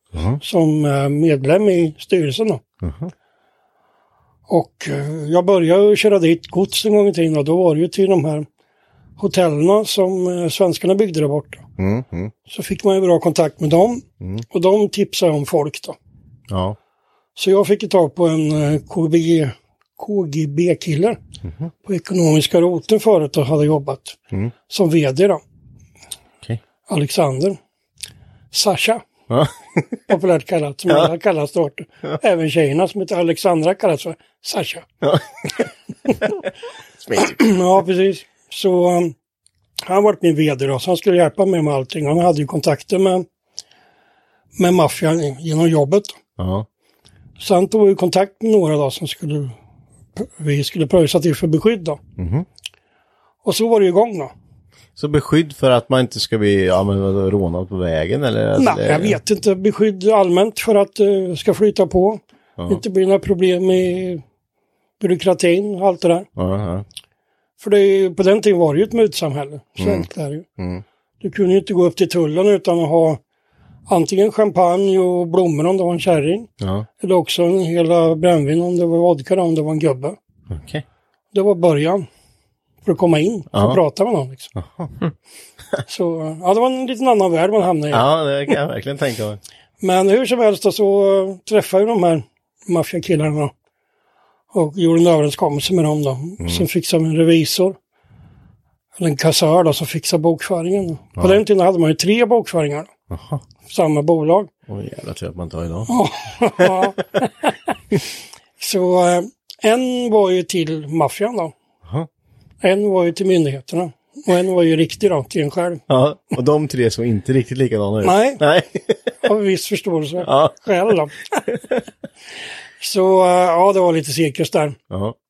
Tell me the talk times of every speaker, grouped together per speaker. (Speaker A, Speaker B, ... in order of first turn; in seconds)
Speaker A: 0.1-0.4, 2.8-3.1, 11.8-12.3, 16.5-16.8, 21.4-21.7, 29.3-30.0, 35.0-35.7, 37.0-37.4, 46.4-46.7, 52.2-52.5, 55.0-59.2, 62.6-62.8, 66.3-66.8, 69.8-70.1, 70.6-70.8, 76.6-76.9, 80.5-80.8, 83.5-83.8, 84.5-84.9, 87.9-89.4, 96.4-96.7, 103.1-103.4, 104.7-105.9, 106.5-106.9, 115.9-119.2, 120.2-120.9, 121.5-121.8, 124.9-125.2
Speaker B: 0.4-2.6, 4.5-8.4, 9.2-11.6, 12.5-15.9, 17.4-21.2, 21.8-24.2, 24.7-25.4, 26.9-27.6, 28.5-29.0, 30.1-34.9, 37.2-39.1, 39.8-43.2, 44.6-46.2, 47.4-49.5, 50.1-52.0, 53.4-54.3, 58.5-64.2, 65.0-66.3, 67.6-70.5, 71.2-73.2, 73.9-76.5, 77.0-80.2, 81.3-82.1, 82.8-84.5, 85.9-88.0, 89.8-93.5, 94.5-97.8, 99.0-102.9, 103.7-104.5, 105.9-107.5, 108.6-111.5, 112.6-115.8, 118.0-118.4, 119.2-121.4, 122.8-124.8